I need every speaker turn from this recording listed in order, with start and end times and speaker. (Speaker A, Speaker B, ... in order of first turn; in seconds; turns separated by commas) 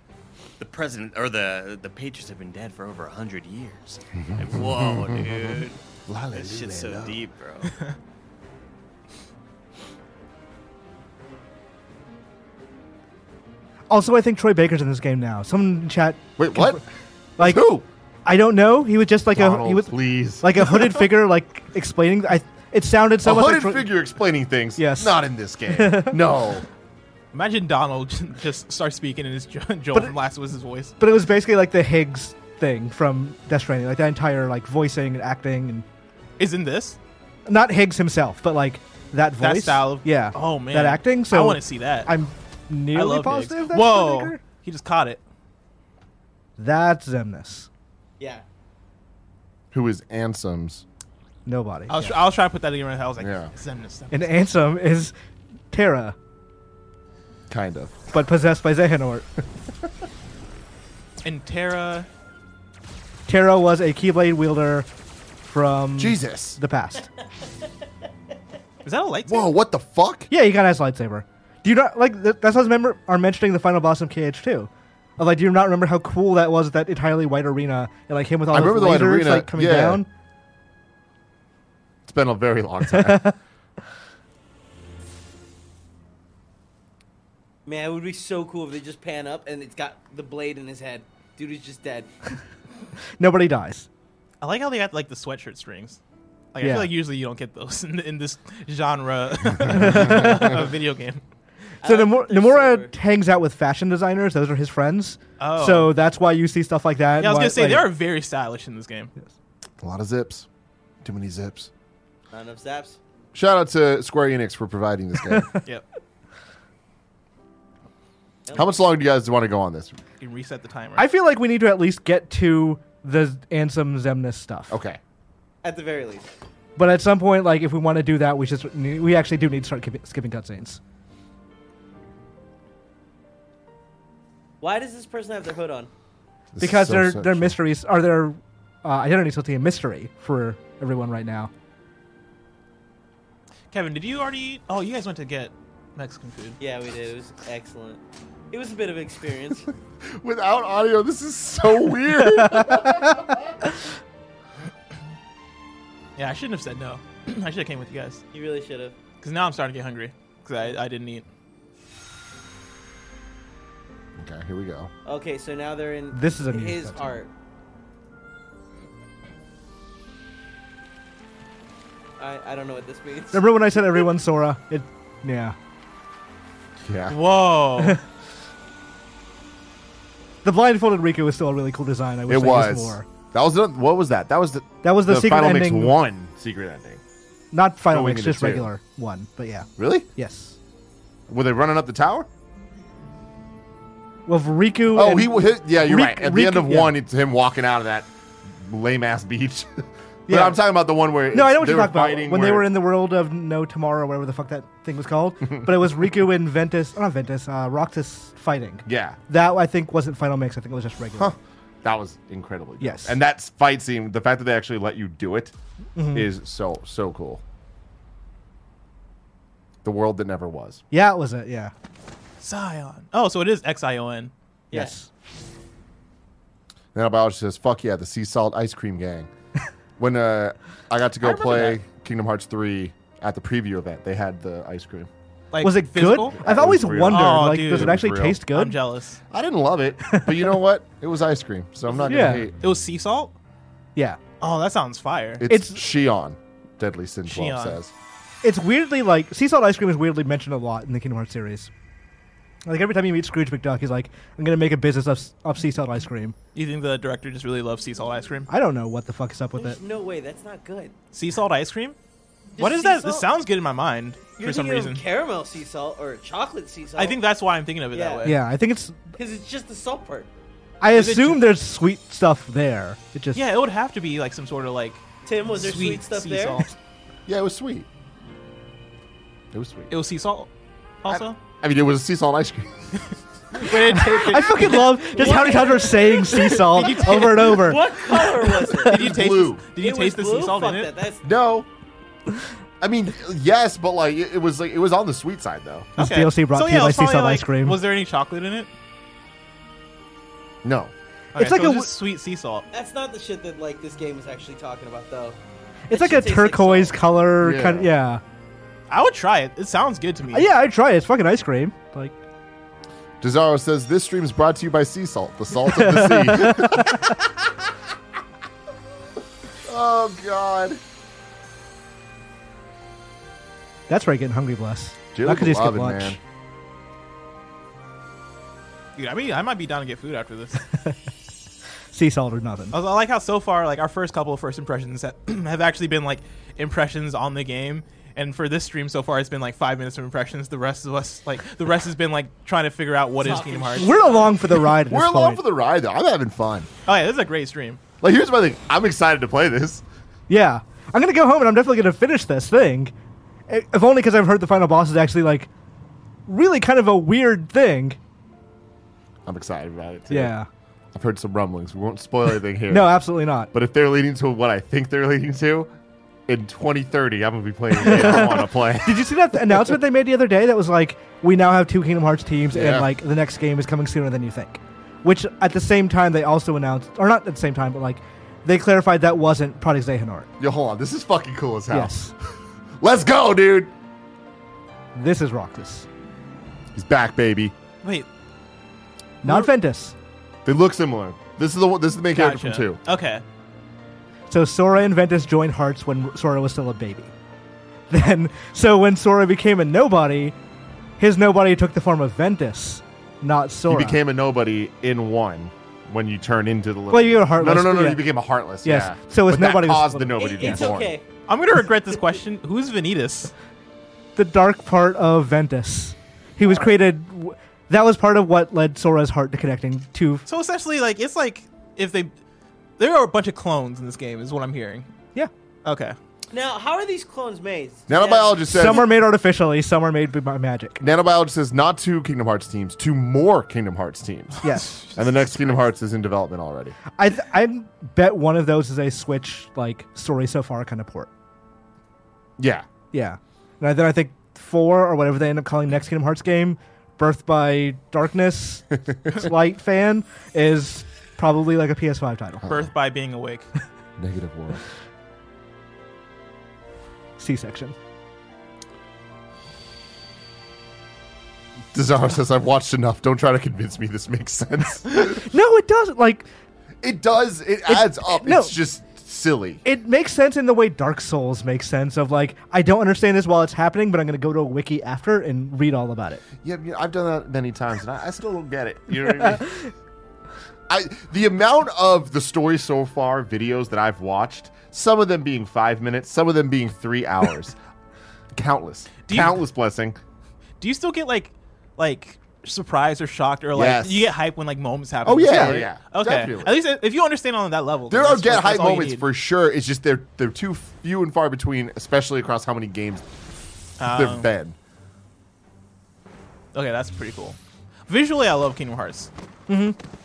Speaker A: 0.6-5.8, Speaker B: 4.3-7.2, Speaker A: 6.3-7.7, Speaker C: 13.9-16.8, Speaker B: 16.4-16.8, Speaker C: 17.4-17.7, Speaker B: 17.4-17.9, Speaker C: 18.3-23.9, Speaker B: 19.3-20.8, Speaker B: 23.2-26.7, Speaker C: 24.8-25.2, Speaker C: 25.7-26.2, Speaker D: 27.3-30.9, Speaker C: 31.0-35.9, Speaker D: 36.4-37.0, Speaker C: 37.5-44.4, Speaker D: 39.4-42.1, Speaker D: 42.9-45.2, Speaker C: 46.6-47.7, Speaker B: 49.7-50.8, Speaker C: 51.5-52.2, Speaker D: 51.9-54.3, Speaker B: 53.2-53.5, Speaker C: 54.1-55.1, Speaker C: 55.7-56.1, Speaker B: 57.5-58.0, Speaker C: 58.1-59.3, Speaker D: 61.2-62.1, Speaker C: 63.3-64.9, Speaker C: 65.4-67.1, Speaker B: 66.0-66.6, Speaker D: 68.8-69.5, Speaker B: 69.3-70.3, Speaker C: 70.3-80.1, Speaker B: 78.5-80.0, Speaker B: 82.1-83.3, Speaker C: 82.9-83.3, Speaker E: 87.7-92.1, Speaker C: 93.2-93.9, Speaker D: 94.4-96.0, Speaker D: 96.5-101.2, Speaker C: 96.6-96.9, Speaker C: 99.7-100.6, Speaker E: 101.8-102.9, Speaker C: 101.8-107.9, Speaker D: 105.4-105.9, Speaker D: 107.2-109.1, Speaker B: 109.8-110.5, Speaker B: 111.0-111.7, Speaker E: 112.3-113.0, Speaker B: 113.3-115.5, Speaker C: 115.3-115.6, Speaker E: 118.5-118.7, Speaker B: 118.5-120.0, Speaker D: 120.2-121.1, Speaker C: 121.0-124.8, Speaker B: 124.7-125.0, Speaker E: 125.6-126.3, Speaker C: 126.8-130.8, Speaker E: 134.6-135.9, Speaker B: 136.5-137.6, Speaker C: 136.6-141.5, Speaker D: 143.7-146.6, Speaker E: 146.6-149.7, Speaker B: 150.0-153.5, Speaker C: 152.4-153.1, Speaker D: 156.2-158.2, Speaker E: 158.3-159.0, Speaker D: 159.2-161.3, Speaker B: 164.2-164.9, Speaker E: 165.1-167.3, Speaker C: 166.1-167.2, Speaker E: 172.2-173.4, Speaker C: 173.3-175.6, Speaker B: 176.8-177.2, Speaker D: 177.1-178.0, Speaker C: 180.4-183.1, Speaker B: 182.3-187.0, Speaker C: 184.8-186.0, Speaker C: 187.5-190.6, Speaker B: 187.9-188.7, Speaker B: 189.8-190.1, Speaker B: 191.3-192.3, Speaker C: 194.3-196.9, Speaker B: 194.9-202.7, Speaker C: 200.3-200.6, Speaker C: 201.3-211.3, Speaker B: 208.9-209.2, Speaker B: 211.2-215.5, Speaker C: 212.8-213.2, Speaker C: 216.0-216.3, Speaker B: 216.1-217.4, Speaker B: 219.8-220.8, Speaker C: 220.9-221.7, Speaker D: 222.4-224.3, Speaker C: 224.7-225.1, Speaker B: 226.9-229.3, Speaker B: 230.0-235.1, Speaker E: 231.2-231.8, Speaker D: 235.5-236.4, Speaker C: 235.6-238.8, Speaker B: 236.3-238.4, Speaker D: 237.1-239.2, Speaker B: 239.3-242.6, Speaker C: 240.1-240.5, Speaker C: 242.1-242.5, Speaker D: 242.6-243.3, Speaker D: 244.4-245.4, Speaker B: 245.4-247.9, Speaker C: 245.5-245.8, Speaker D: 247.3-247.8, Speaker C: 248.4-251.7, Speaker C: 252.7-256.4, Speaker D: 256.5-258.5, Speaker C: 258.5-259.8, Speaker E: 259.6-260.9, Speaker D: 261.1-262.0, Speaker E: 262.6-263.3, Speaker D: 262.6-265.0, Speaker E: 264.4-267.2, Speaker D: 267.0-268.4, Speaker E: 267.9-268.3, Speaker C: 268.2-269.1, Speaker E: 269.2-270.3, Speaker C: 270.8-273.4, Speaker D: 270.9-271.5, Speaker D: 273.4-276.8, Speaker E: 275.2-276.7, Speaker B: 277.3-277.9, Speaker B: 279.5-279.9, Speaker D: 279.9-280.5, Speaker D: 281.0-281.4, Speaker B: 281.1-282.9, Speaker D: 283.5-287.8, Speaker C: 283.6-287.8, Speaker E: 285.1-289.1, Speaker D: 288.8-290.9, Speaker B: 288.9-289.6, Speaker E: 289.8-291.3, Speaker B: 291.2-291.7, Speaker B: 292.8-295.9, Speaker C: 296.0-297.8, Speaker D: 296.0-298.7, Speaker B: 300.6-300.9, Speaker C: 301.3-301.9, Speaker D: 301.4-302.7, Speaker E: 302.7-305.4, Speaker C: 305.9-308.2, Speaker E: 305.9-307.0, Speaker B: 307.4-307.9, Speaker D: 308.9-310.5, Speaker C: 310.3-312.1, Speaker B: 313.2-317.5, Speaker C: 315.6-317.1, Speaker B: 319.6-320.8, Speaker C: 323.9-326.2, Speaker B: 325.1-326.2, Speaker D: 329.0-330.6, Speaker C: 331.9-332.8, Speaker D: 332.7-344.0, Speaker E: 343.2-344.4, Speaker C: 343.8-345.4, Speaker B: 344.9-346.7, Speaker D: 346.9-347.8, Speaker B: 348.0-349.8, Speaker C: 350.3-352.9, Speaker C: 353.5-355.5, Speaker C: 356.3-358.0, Speaker B: 359.2-360.3, Speaker C: 360.1-360.5, Speaker B: 360.9-363.0, Speaker C: 362.7-363.5, Speaker B: 363.5-365.7, Speaker B: 366.3-369.6, Speaker C: 367.7-380.3, Speaker B: 372.5-372.9, Speaker B: 380.4-382.0, Speaker C: 381.7-382.1, Speaker B: 382.8-383.7, Speaker C: 384.9-385.9, Speaker B: 386.8-387.5, Speaker C: 389.2-389.9, Speaker B: 390.4-392.8, Speaker D: 392.1-393.2, Speaker C: 394.3-397.1, Speaker C: 397.9-400.4, Speaker C: 401.0-404.0, Speaker B: 403.7-411.0, Speaker C: 406.9-408.1, Speaker C: 408.6-410.7, Speaker E: 410.2-411.1, Speaker D: 411.3-413.3, Speaker C: 414.2-420.3, Speaker D: 420.3-422.1, Speaker D: 422.8-424.9, Speaker D: 425.6-426.0, Speaker E: 426.3-428.9, Speaker B: 427.9-428.9, Speaker C: 428.5-430.8, Speaker B: 430.8-436.8, Speaker C: 434.4-434.8, Speaker D: 434.6-435.3, Speaker C: 437.0-441.1, Speaker B: 442.4-442.7, Speaker C: 442.9-452.4, Speaker B: 448.9-449.1, Speaker B: 452.4-452.7, Speaker D: 452.5-453.5, Speaker B: 454.0-454.6, Speaker C: 457.2-457.8, Speaker B: 461.7-465.2, Speaker C: 465.1-466.3, Speaker B: 466.8-469.6, Speaker C: 467.7-468.6, Speaker C: 469.6-476.2, Speaker B: 476.4-479.4, Speaker B: 480.7-487.6, Speaker B: 488.4-490.0, Speaker D: 489.1-489.4, Speaker D: 490.6-499.1, Speaker B: 493.5-494.1, Speaker B: 495.1-496.6, Speaker C: 495.1-495.6, Speaker B: 497.9-503.0, Speaker D: 503.8-504.3, Speaker B: 503.8-504.6, Speaker D: 506.5-509.1, Speaker C: 509.5-509.8